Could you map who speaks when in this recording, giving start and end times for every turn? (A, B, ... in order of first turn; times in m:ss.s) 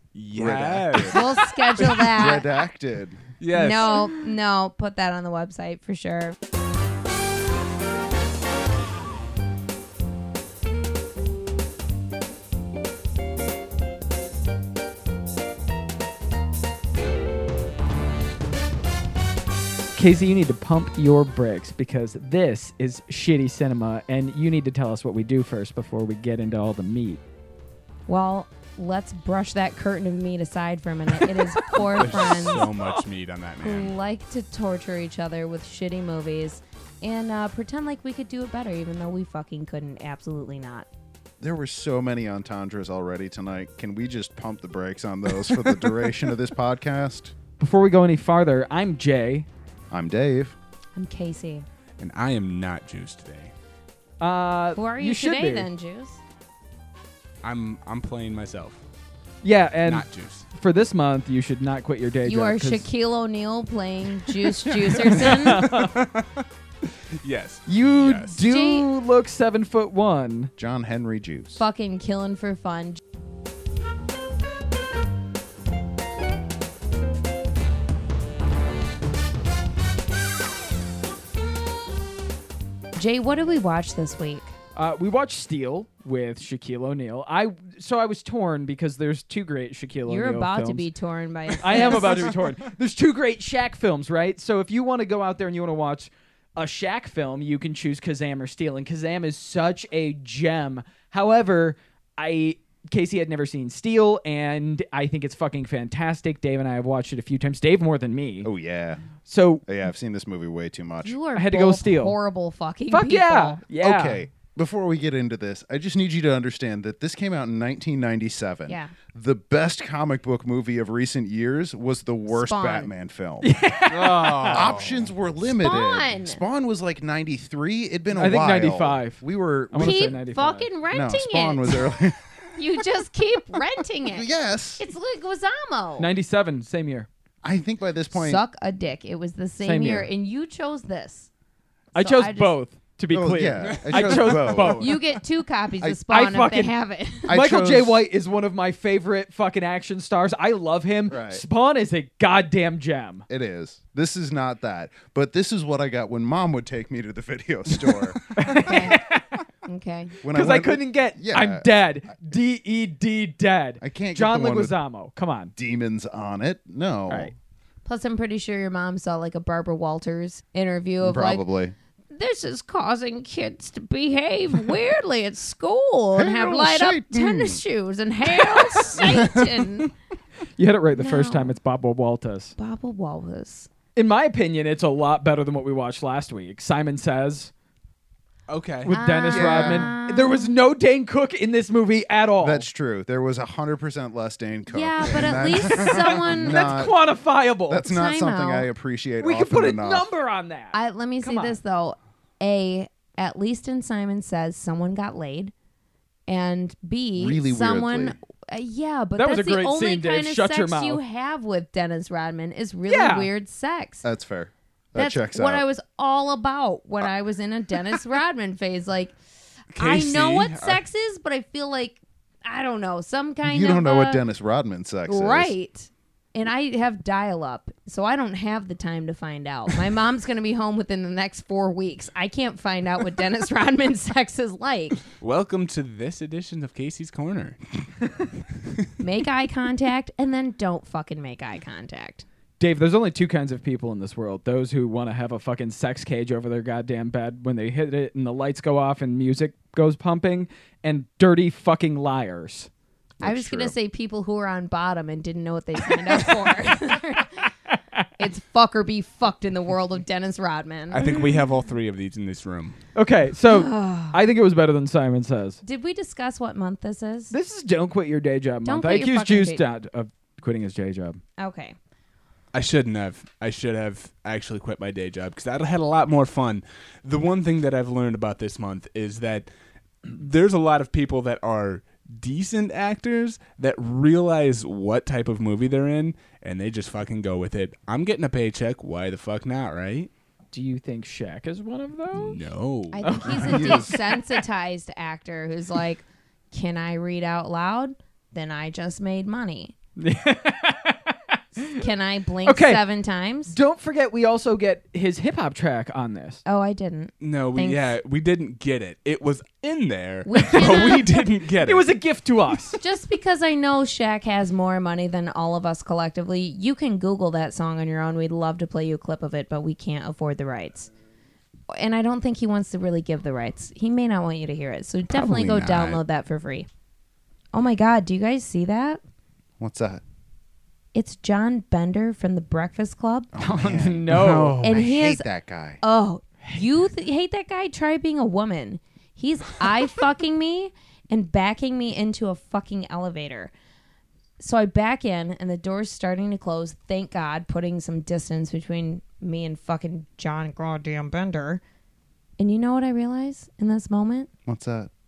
0:00.1-0:02.0 A
0:00.4-0:01.2 B
0:01.1-0:02.5 C
0:01.9-0:03.2 B
0:03.4-0:04.1 A
0:03.5-0:06.4 C
0:20.0-0:27.2 D
0:28.1-0:32.7 C
0:31.2-0:32.8 D
0:32.0-0:33.9 A
0:33.6-0:40.9 C
0:41.4-0:47.3 B
0:47.6-0:49.5 D
0:49.9-0:50.6 B
0:51.0-0:51.7 C
0:52.0-0:53.5 A
0:54.2-0:55.7 D
0:54.8-0:56.2 C
0:57.4-0:58.8 A
0:59.4-1:02.8 D
0:59.8-1:00.5 A
1:02.2-1:05.7 C
1:05.1-1:06.0 D
1:05.2-1:06.4 A
1:07.2-1:08.4 A
1:07.7-1:10.5 D
1:08.4-1:08.9 C
1:10.6-1:11.6 B
1:11.6-1:13.0 C
1:23.0-1:24.5 C
1:24.8-1:30.9 D
1:30.1-1:32.4 C
1:31.6-1:48.5 D
1:48.4-1:49.0 B
1:49.3-1:49.6 D
1:49.6-1:51.2 B
1:51.0-1:53.6 C
1:51.4-1:52.2 D
1:52.9-1:54.2 D
1:53.8-2:03.5 B
2:02.3-2:02.9 C
2:03.4-2:04.7 D
2:03.9-2:05.1 A
2:04.5-2:10.2 B
2:05.4-2:06.4 C
2:08.2-2:10.7 D
2:09.8-2:12.0 C
2:10.9-2:12.2 B
2:12.6-2:14.3 C
2:14.1-2:14.8 B
2:14.8-2:16.1 C
2:16.0-2:17.1 D
2:17.4-2:18.4 B
2:18.1-2:21.3 C
2:19.6-2:20.1 D
2:21.9-2:22.6 C
2:22.0-2:25.0 D
2:23.1-2:24.9 B
2:23.7-2:24.7 A
2:24.8-2:27.4 C
2:26.1-2:26.7 D
2:27.3-2:28.0 B
2:27.3-2:33.2 D
2:31.1-2:31.4 B
2:33.3-2:38.2 B
2:38.4-2:39.4 D
2:38.5-2:39.0 C
2:39.7-2:40.2 C
2:40.2-2:41.7 B
2:40.3-2:45.5 D
2:43.8-2:44.8 B
2:45.6-2:47.3 B
2:47.8-2:51.4 C
2:51.0-2:51.7 B
2:52.1-2:59.9 C
2:56.2-2:57.6 B
3:00.6-3:02.5 D
3:01.0-3:01.5 C
3:02.6-3:03.7 C
3:04.0-3:07.5 D
3:08.5-3:09.0 A
3:08.9-3:12.6 D
3:08.9-3:10.5 C
3:09.3-3:09.9 B
3:12.4-3:16.9 B
3:14.7-3:16.6 C
3:16.3-3:17.8 D
3:17.7-3:20.1 B
3:17.8-3:18.7 C
3:19.2-3:21.6 D
3:20.7-3:25.5 C
3:26.3-3:34.1 C
3:27.2-3:28.2 B
3:29.2-3:31.0 D
3:32.9-3:33.3 D
3:34.0-3:35.6 B
3:35.0-3:39.2 C
3:39.7-3:40.8 A
3:39.8-3:44.2 C
3:43.4-3:45.5 B
3:45.1-3:55.0 C
3:55.2-3:57.6 A
3:59.0-4:02.2 C
4:02.6-4:12.7 D
4:13.2-4:13.8 B
4:13.2-4:17.4 C
4:17.7-4:18.1 D
4:18.2-4:21.0 C
4:20.9-4:22.8 A
4:21.0-4:21.4 D
4:23.0-4:25.6 D
4:23.5-4:24.2 C
4:25.6-4:27.3 C
4:27.3-4:31.2 D
4:28.6-4:29.6 C
4:31.4-4:31.8 C
4:32.5-4:39.5 A
4:40.1-4:50.1 A
4:50.5-4:52.4 D
4:52.1-4:53.7 A
4:52.9-4:59.7 C
4:53.0-4:54.4 D
4:53.5-4:54.0 B
5:00.0-5:01.8 D
5:01.6-5:03.6 C
5:02.4-5:02.8 D
5:03.5-5:06.4 D
5:06.4-5:07.9 C
5:07.2-5:11.9 A
5:10.3-5:11.3 C
5:10.4-5:11.0 D
5:11.6-5:12.8 D
5:12.8-5:20.9 C
5:21.7-5:26.7 C
5:25.1-5:26.0 A
5:27.5-5:29.0 C
5:29.6-5:30.0 B
5:30.9-5:33.3 C
5:33.3-5:34.1 B
5:33.4-5:34.6 D
5:34.1-5:34.7 A
5:34.6-5:35.3 C
5:34.6-5:35.8 B
5:35.8-5:43.5 C
5:44.4-5:51.6 C
5:52.4-5:54.3 C
5:54.5-5:54.9 B